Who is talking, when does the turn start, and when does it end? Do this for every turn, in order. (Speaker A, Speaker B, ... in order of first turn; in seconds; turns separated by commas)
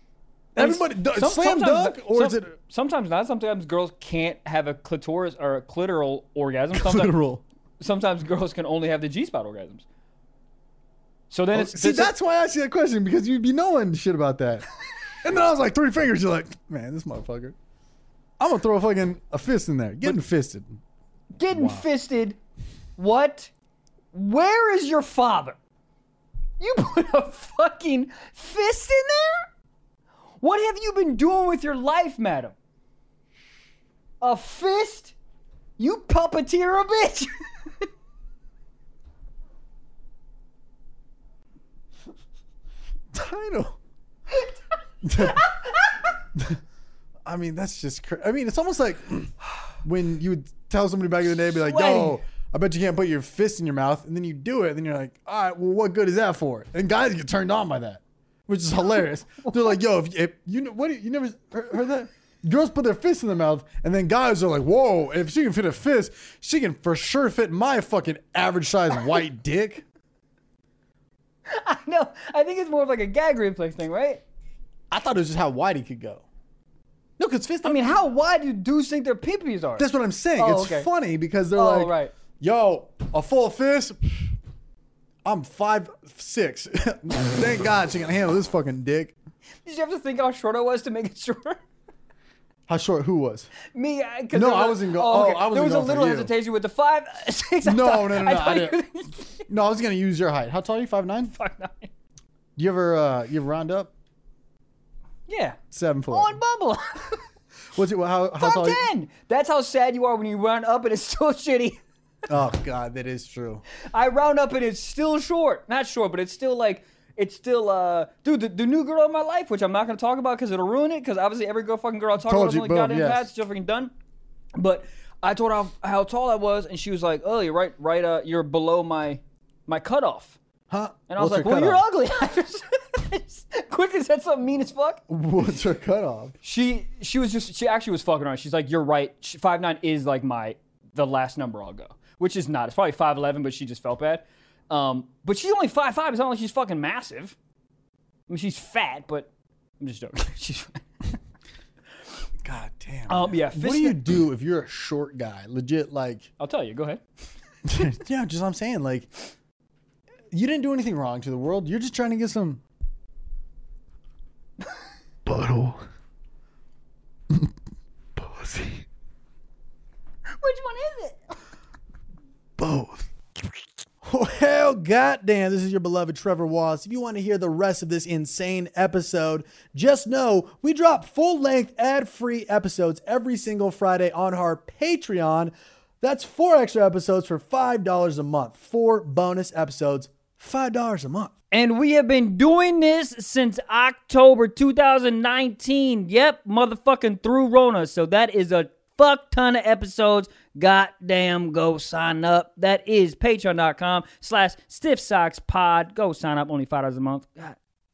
Speaker A: 0.6-2.5, Speaker B: 0.6-7.2, Speaker A: 6.7-7.4, Speaker B: 7.8-9.9, Speaker B: 11.3-12.1, Speaker A: 11.5-14.6, Speaker A: 15.2-17.6, Speaker A: 18.4-20.8, Speaker B: 21.4-22.4, Speaker A: 21.5-21.9, Speaker B: 23.0-23.5, Speaker B: 24.1-25.6, Speaker B: 26.6-29.5, Speaker B: 30.4-32.5, Speaker B: 34.2-35.1, Speaker B: 35.8-37.3, Speaker A: 43.1-43.8, Speaker A: 45.0-45.5, Speaker B: 45.1-45.9, Speaker A: 47.3-69.8, Speaker B: 51.3-52.2, Speaker B: 71.5-74.2, Speaker A: 74.9-76.2, Speaker A: 77.2-78.0, Speaker B: 77.6-80.9, Speaker A: 79.8-84.1, Speaker B: 81.5-82.1, Speaker A: 85.2-89.2, Speaker B: 89.7-91.6, Speaker A: 92.7-93.5, Speaker B: 93.7-99.5, Speaker A: 94.3-96.3, Speaker A: 97.6-98.8, Speaker A: 99.5-101.3, Speaker B: 101.3-101.9, Speaker A: 102.6-103.9, Speaker B: 105.3-105.6, Speaker A: 105.7-106.4, Speaker B: 106.1-107.2, Speaker A: 107.7-108.9, Speaker B: 108.4-111.8, Speaker A: 112.3-113.6, Speaker B: 113.8-123.9, Speaker A: 122.2-123.3, Speaker B: 124.6-130.4, Speaker A: 130.7-131.8, Speaker B: 131.1-135.0, Speaker A: 135.1-136.3, Speaker B: 136.4-147.4, Speaker B: 148.3-149.3, Speaker B: 149.8-150.8, Speaker A: 152.4-156.3, Speaker B: 153.1-154.1, Speaker B: 156.4-157.0, Speaker A: 157.7-159.1, Speaker A: 160.3-162.6, Speaker A: 165.3-165.8, Speaker A: 168.2-168.8, Speaker B: 170.4-171.3, Speaker A: 172.6-173.1, Speaker A: 174.0-191.3, Speaker B: 191.5-207.6